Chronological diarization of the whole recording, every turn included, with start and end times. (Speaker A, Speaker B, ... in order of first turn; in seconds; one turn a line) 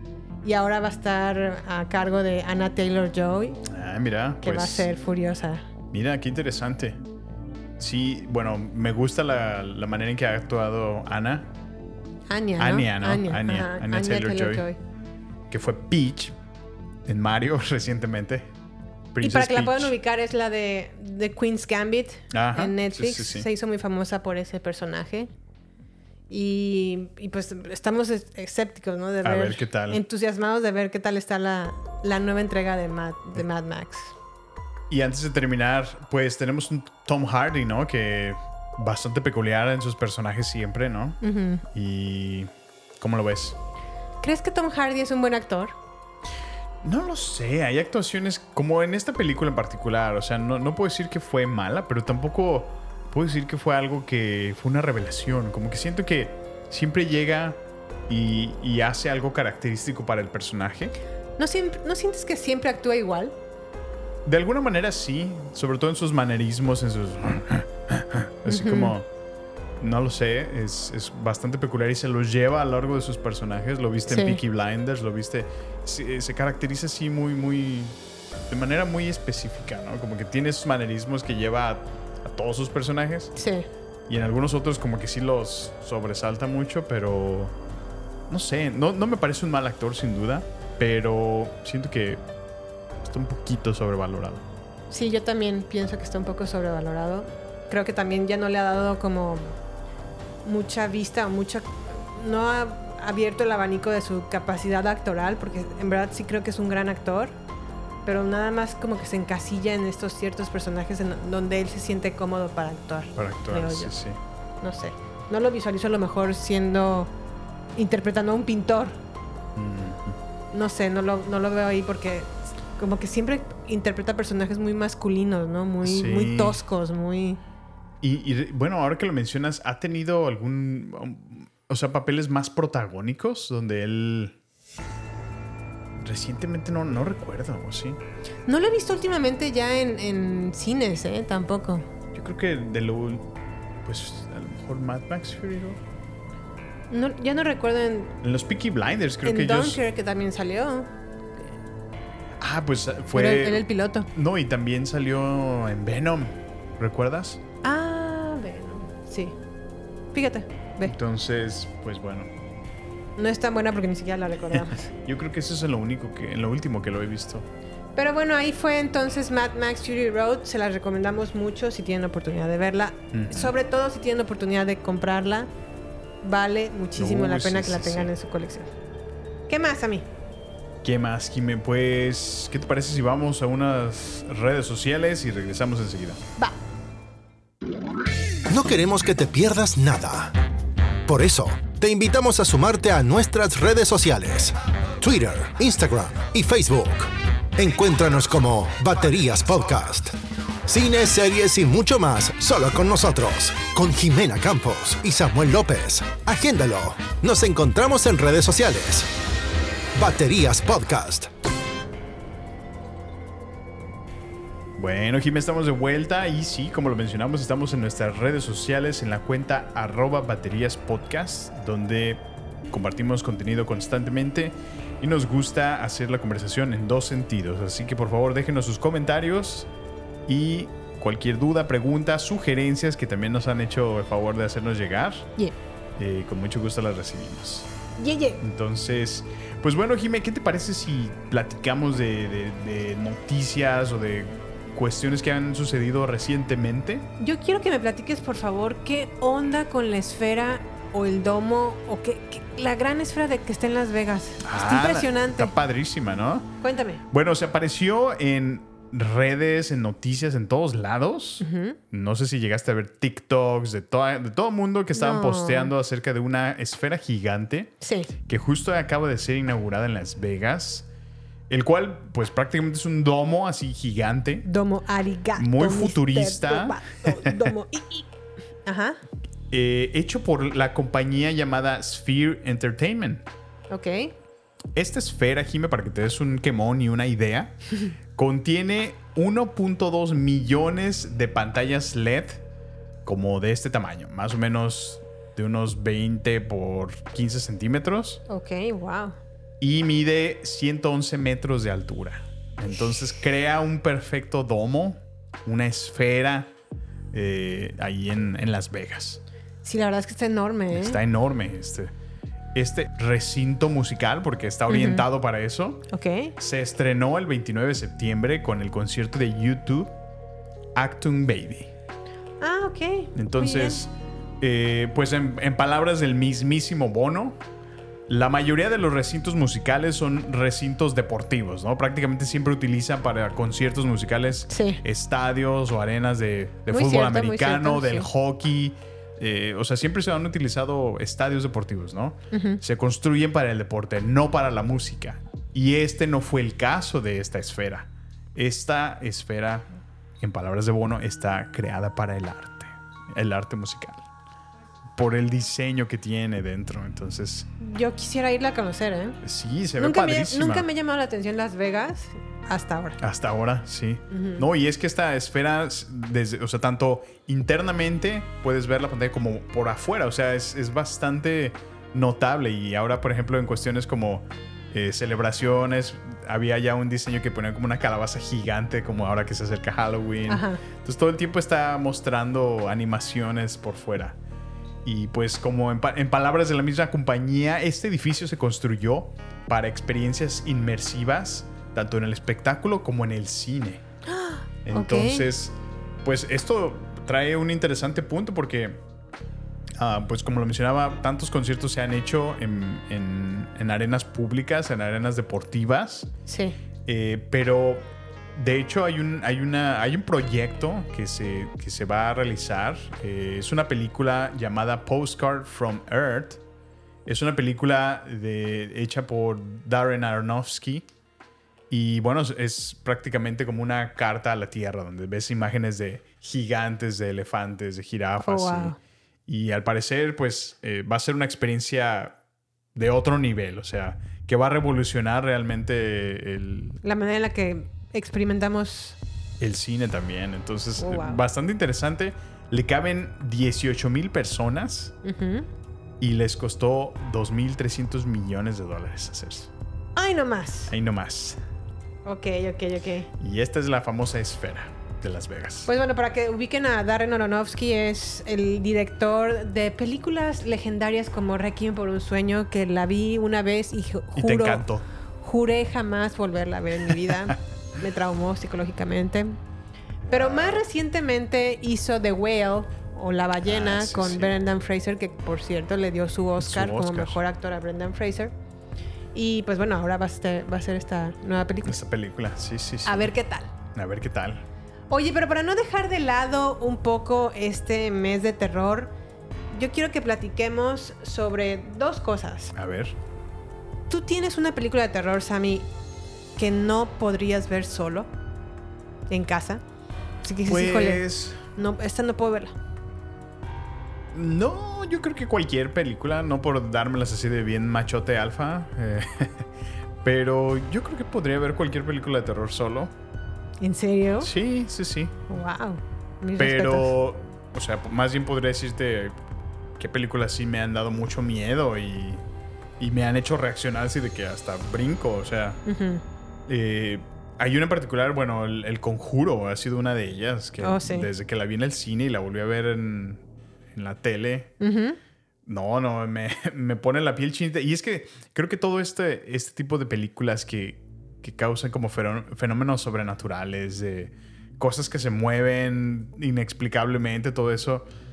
Speaker A: 0.4-3.6
Speaker B: 3.7-4.9
Speaker A: 4.4-5.7
Speaker B: 5.9-7.0
Speaker B: 7.8-11.5
Speaker A: 12.3-14.8
Speaker B: 12.6-14.7
Speaker B: 15.5-16.4
Speaker B: 17.1-18.5
Speaker B: 19.1-19.9
Speaker A: 19.2-25.3
Speaker B: 22.3-23.5
Speaker A: 26.3-34.1
Speaker B: 29.2-30.0
Speaker B: 34.9-43.6
Speaker A: 41.2-41.6
Speaker A: 44.2-45.8
Speaker B: 46.8-61.0
Speaker A: 61.4-63.3
Speaker B: 64.2-69.1
Speaker A: 68.5-68.9
Speaker B: 69.8-78.0
Speaker A: 74.1-74.4
Speaker B: 78.5-83.3
Speaker A: 83.4-83.7
Speaker B: 84.1-87.6
Speaker B: 88.3-92.2
Speaker B: 93.0-94.4
Speaker A: 94.9-99.6
Speaker A: 100.4-107.4
Speaker A: 108.0-113.9
Speaker B: 113.2-114.2
Speaker A: 114.6-117.1
Speaker A: 117.8-119.0
Speaker B: 119.6-120.2
Speaker A: 120.5-127.4
Speaker B: 125.8-126.6
Speaker B: 128.0-134.4
Speaker B: 136.0-138.0
Speaker A: 138.5-141.8
Speaker B: 142.1-143.3
Speaker B: 143.8-145.8
Speaker A: 146.9-148.1
Speaker B: 148.2-149.8
Speaker A: 149.2-150.9
Speaker B: 152.4-157.4
Speaker A: 153.1-154.1
Speaker A: 157.6-159.4
Speaker A: 160.1-160.9
Speaker B: 160.8-162.3
Speaker A: 163.2-164.9
Speaker B: 164.5-167.5
Speaker A: 168.0-175.5
Speaker B: 173.1-173.5
Speaker A: 176.2-178.7
Speaker B: 177.0-178.1
Speaker A: 179.5-180.1
Speaker B: 180.8-186.2
Speaker C: 188.5-190.3
Speaker C: 191.1-200.2
Speaker C: 200.7-209.1
Speaker C: 209.9-211.3
Speaker B: 214.8-229.7
Speaker B: 230.3-235.3
Speaker B: 236.0-237.7
Speaker A: 238.0-238.4
Speaker B: 238.4-247.1
Speaker A: 247.2-255.6
Speaker B: 254.4-256.5
Speaker A: 256.6-257.0
Speaker B: 257.1-267.7
Speaker A: 261.4-261.8
Speaker A: 264.9-265.7
Speaker A: 267.8-268.1
Speaker B: 268.3-270.9
Speaker B: 271.5-274.5
Speaker A: 274.4-278.1
Speaker B: 275.4-277.5
Speaker A: 278.6-279.0
Speaker B: 279.5-283.2
Speaker A: 283.7-284.1
Speaker B: 284.8-287.6
Speaker B: 288.1-292.4
Speaker B: 293.0-298.2
Speaker A: 298.3-299.2
Speaker B: 299.6-306.5
Speaker B: 307.1-309.2
Speaker A: 309.6-311.0
Speaker B: 310.7-311.9
Speaker B: 312.5-315.9
Speaker A: 314.7-315.1
Speaker A: 315.9-316.3
Speaker B: 316.4-319.9
Speaker B: 320.8-321.7
Speaker A: 322.4-323.8
Speaker B: 323.1-327.4
Speaker B: 328.1-349.7
Speaker A: 334.5-334.8
Speaker A: 336.7-338.1
Speaker A: 342.3-342.6
Speaker B: 350.2-354.1
Speaker B: 354.9-357.5
Speaker A: 357.6-359.2
Speaker B: 359.2-360.7
Speaker A: 359.8-363.0
Speaker B: 363.0-384.2
Speaker A: 364.1-364.4
Speaker A: 380.3-380.6
Speaker B: 384.8-393.8
Speaker A: 394.1-395.3
Speaker B: 394.6-398.8
Speaker B: 399.8-406.1
Speaker A: 406.3-406.6
Speaker B: 406.9-416.4
Speaker B: 417.1-420.9
Speaker B: 421.7-428.8
Speaker A: 428.2-428.8
Speaker B: 429.3-432.2
Speaker B: 432.8-436.8
Speaker A: 436.8-439.0
Speaker B: 439.4-444.9
Speaker A: 440.8-441.2
Speaker A: 445.0-445.5
Speaker B: 446.0-449.5
Speaker A: 450.0-450.7
Speaker B: 450.7-451.4
Speaker A: 452.1-453.1
Speaker B: 453.2-455.7
Speaker A: 455.7-464.7
Speaker B: 464.1-464.9
Speaker A: 465.2-469.4
Speaker B: 466.9-467.4
Speaker B: 470.1-470.6
Speaker A: 470.1-478.3
Speaker B: 473.4-474.4
Speaker B: 476.4-477.2
Speaker A: 479.1-481.8
Speaker B: 481.6-483.1
Speaker A: 482.9-483.5
Speaker B: 483.7-484.4
Speaker A: 484.9-488.9
Speaker A: 489.5-492.6
Speaker B: 492.6-493.0
Speaker A: 493.9-495.7
Speaker A: 496.4-498.1
Speaker A: 499.1-499.6
Speaker A: 500.2-502.6
Speaker B: 500.4-501.4
Speaker B: 504.1-509.5
Speaker B: 510.0-512.9
Speaker A: 513.6-514.3
Speaker B: 514.2-515.2
Speaker A: 515.3-516.9
Speaker B: 516.4-519.2
Speaker B: 519.8-522.2
Speaker B: 522.8-525.6
Speaker A: 525.7-526.0
Speaker B: 526.5-534.5
Speaker A: 530.6-531.1
Speaker A: 534.6-535.0
Speaker B: 535.5-547.9